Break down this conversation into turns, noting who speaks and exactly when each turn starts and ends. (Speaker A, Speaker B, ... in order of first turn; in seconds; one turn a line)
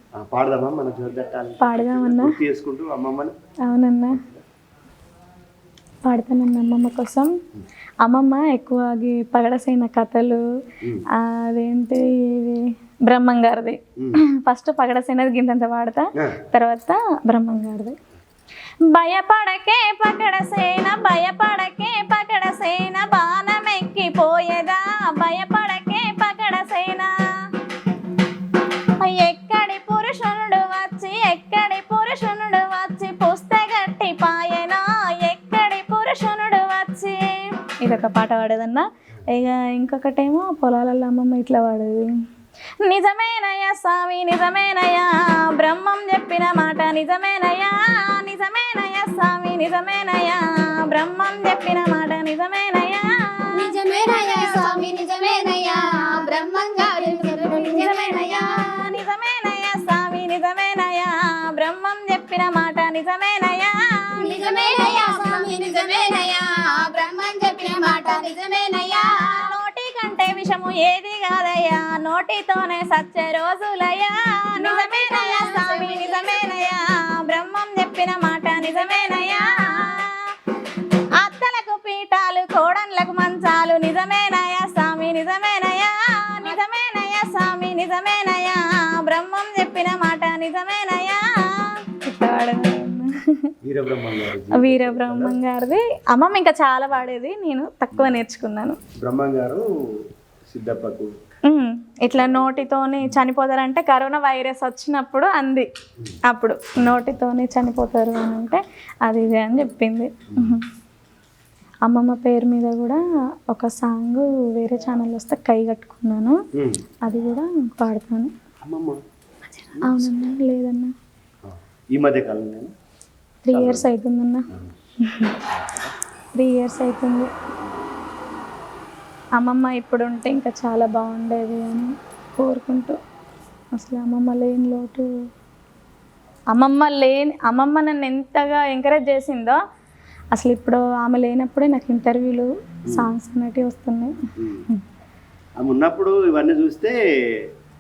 Speaker A: 0.2-3.3
Speaker B: 1.6-2.4
Speaker B: 3.6-4.2
Speaker A: 4.1-4.4
Speaker B: 6.0-7.3
Speaker B: 8.0-10.4
Speaker B: 11.2-18.0
Speaker B: 18.9-27.1
Speaker B: 29.0-42.1
Speaker B: 42.8-54.8
Speaker C: 53.5-58.6
Speaker B: 57.0-65.5
Speaker C: 64.2-69.5
Speaker B: 69.3-80.2
Speaker C: 74.6-76.7
Speaker B: 81.2-93.5
Speaker A: 93.6-95.4
Speaker B: 94.5-98.8
Speaker A: 97.9-98.2
Speaker A: 99.0-99.7
Speaker A: 100.5-101.1
Speaker B: 101.5-105.7
Speaker A: 102.1-103.2
Speaker B: 106.3-110.7
Speaker A: 110.3-110.6
Speaker B: 111.9-116.4
Speaker A: 116.6-116.8
Speaker B: 117.0-118.3
Speaker A: 118.6-119.0
Speaker A: 119.8-120.1
Speaker B: 119.8-120.9
Speaker A: 121.5-122.7
Speaker B: 123.5-124.5
Speaker A: 123.5-123.9
Speaker B: 125.0-125.4
Speaker A: 125.4-126.0
Speaker B: 126.3-127.3
Speaker B: 129.4-133.0
Speaker B: 133.7-135.1
Speaker B: 136.5-139.6
Speaker B: 140.3-144.8
Speaker A: 142.9-143.1
Speaker A: 144.4-144.7
Speaker A: 145.6-147.5